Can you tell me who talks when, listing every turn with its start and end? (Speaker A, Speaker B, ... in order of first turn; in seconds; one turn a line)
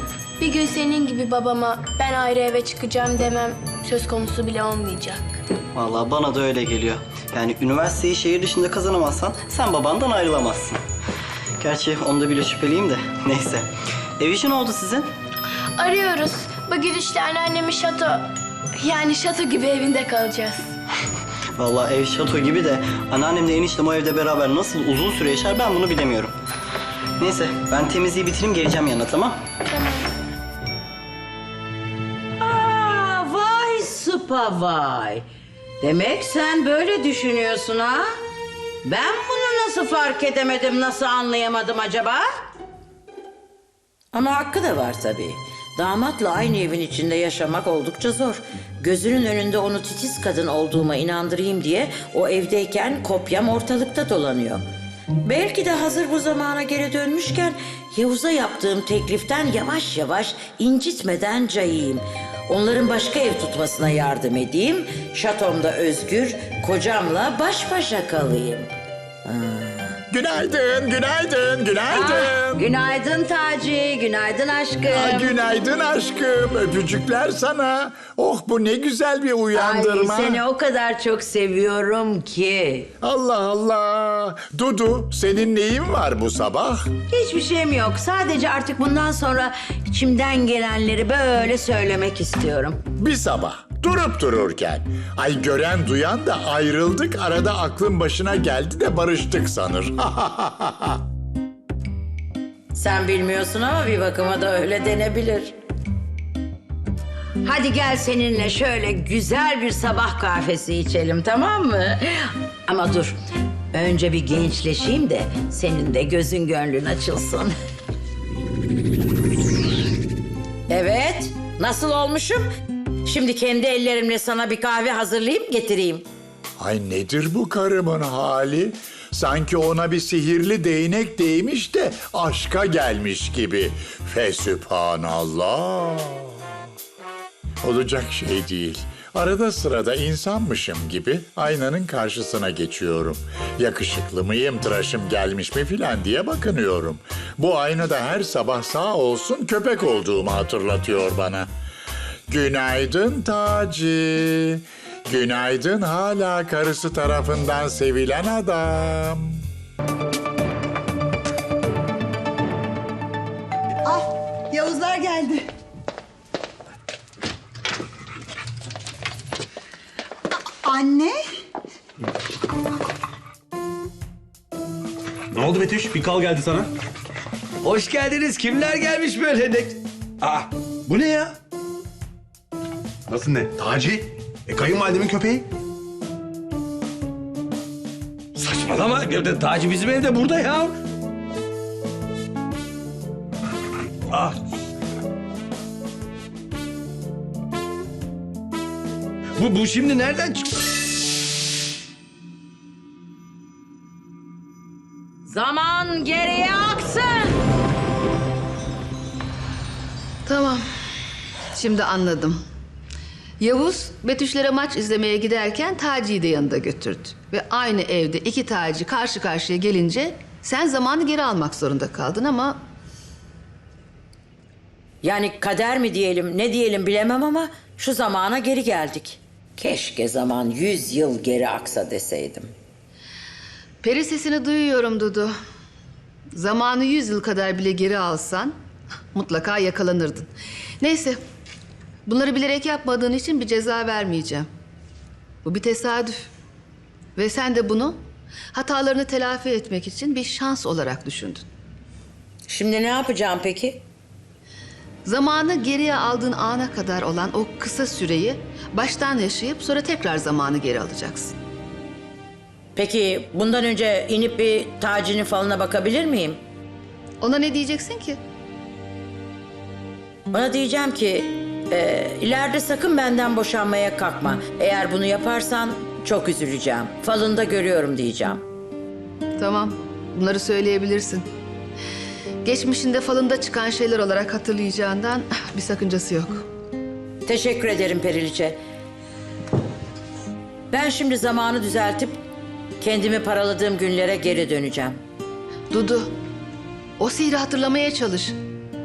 Speaker A: 0.4-5.4
Speaker B: 5.7-10.8
Speaker B: 11.6-15.1
Speaker A: 15.8-18.3
Speaker A: 18.8-20.7
Speaker B: 21.6-26.4
Speaker B: 27.2-29.4
Speaker A: 29.7-30.1
Speaker C: 32.4-35.2
Speaker C: 35.8-38.1
Speaker C: 38.8-42.3
Speaker C: 44.1-54.6
Speaker C: 55.2-68.7
Speaker C: 69.2-70.0
Speaker D: 70.1-72.7
Speaker C: 71.9-75.3
Speaker D: 74.9-80.4
Speaker C: 79.5-82.9
Speaker D: 83.0-86.9
Speaker C: 87.1-92.8
Speaker D: 93.0-101.0
Speaker C: 102.7-105.5
Speaker C: 107.4-113.2
Speaker C: 113.7-117.5
Speaker C: 120.7-122.5
Speaker C: 123.0-126.0
Speaker D: 126.6-136.4
Speaker D: 137.6-151.5
Speaker D: 152.3-159.4
Speaker E: 163.8-165.5
Speaker E: 170.6-171.2
Speaker F: 175.3-176.7
Speaker G: 177.6-180.5
Speaker F: 180.9-181.3
Speaker F: 183.1-185.4
Speaker G: 188.3-190.8
Speaker G: 194.1-194.4
Speaker G: 199.4-200.6
Speaker C: 205.2-207.3
Speaker H: 210.2-210.7
Speaker H: 211.5-212.4
Speaker H: 213.4-222.6
Speaker C: 225.0-232.5
Speaker H: 233.8-235.3
Speaker H: 236.3-238.6
Speaker H: 239.1-241.2
Speaker H: 242.1-244.5
Speaker H: 245.4-246.3
Speaker H: 247.2-248.0
Speaker H: 248.5-251.4
Speaker C: 252.5-253.8
Speaker H: 255.1-261.3
Speaker C: 262.8-266.4
Speaker H: 267.2-268.2
Speaker C: 270.3-278.4
Speaker H: 279.4-281.3
Speaker H: 282.4-286.4
Speaker C: 287.2-288.6
Speaker C: 290.7-292.2
Speaker C: 292.8-295.0
Speaker H: 295.7-296.1
Speaker H: 297.0-298.4